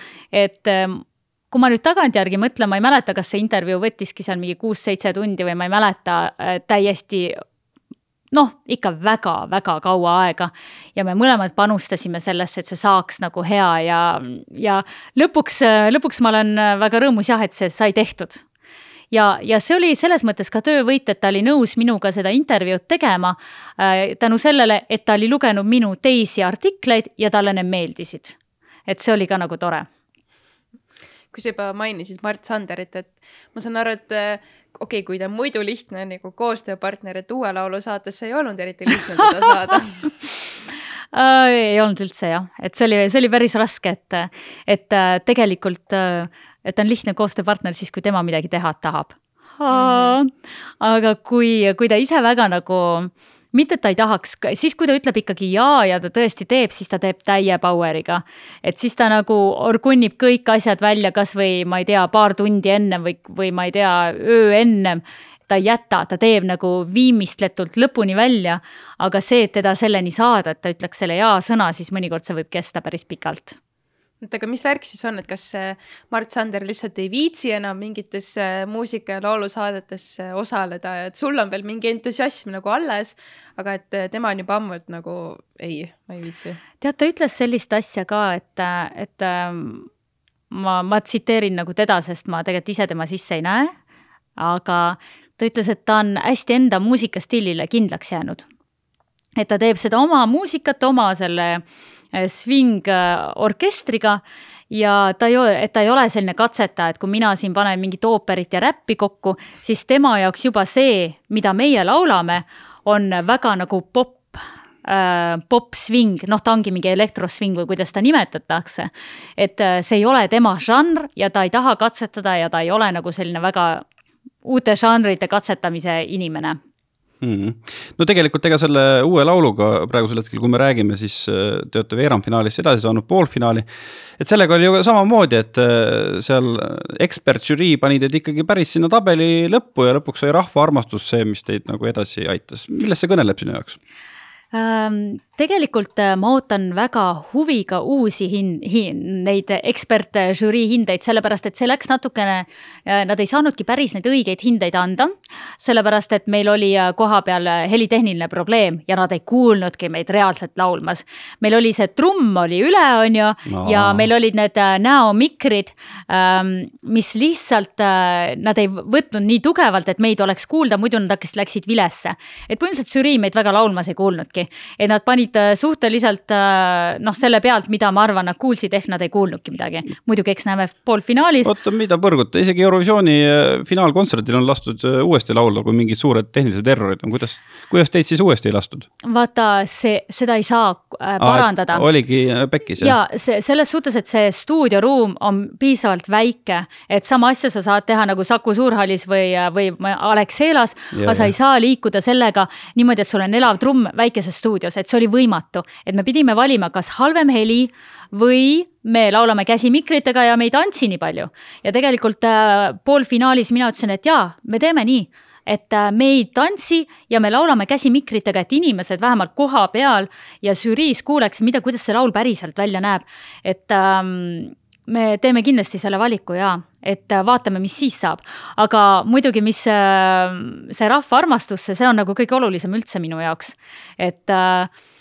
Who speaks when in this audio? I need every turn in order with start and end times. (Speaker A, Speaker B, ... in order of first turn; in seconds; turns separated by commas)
Speaker A: 0.3-7.4, Speaker A: 8.3-18.4, Speaker A: 19.1-28.4, Speaker A: 28.9-29.9, Speaker B: 31.3-40.0, Speaker A: 41.1-73.6, Speaker B: 49.7-50.2, Speaker B: 74.2-86.6, Speaker A: 86.8-89.9, Speaker A: 90.5-93.7, Speaker A: 94.4-98.5, Speaker A: 99.4-123.8, Speaker A: 124.4-126.6, Speaker C: 127.2-133.7, Speaker C: 134.2-143.8, Speaker A: 144.5-181.5, Speaker C: 163.5-164.1, Speaker C: 181.4-188.9, Speaker A: 189.0-191.8, Speaker C: 191.2-192.9, Speaker A: 192.8-234.7, Speaker C: 200.9-201.3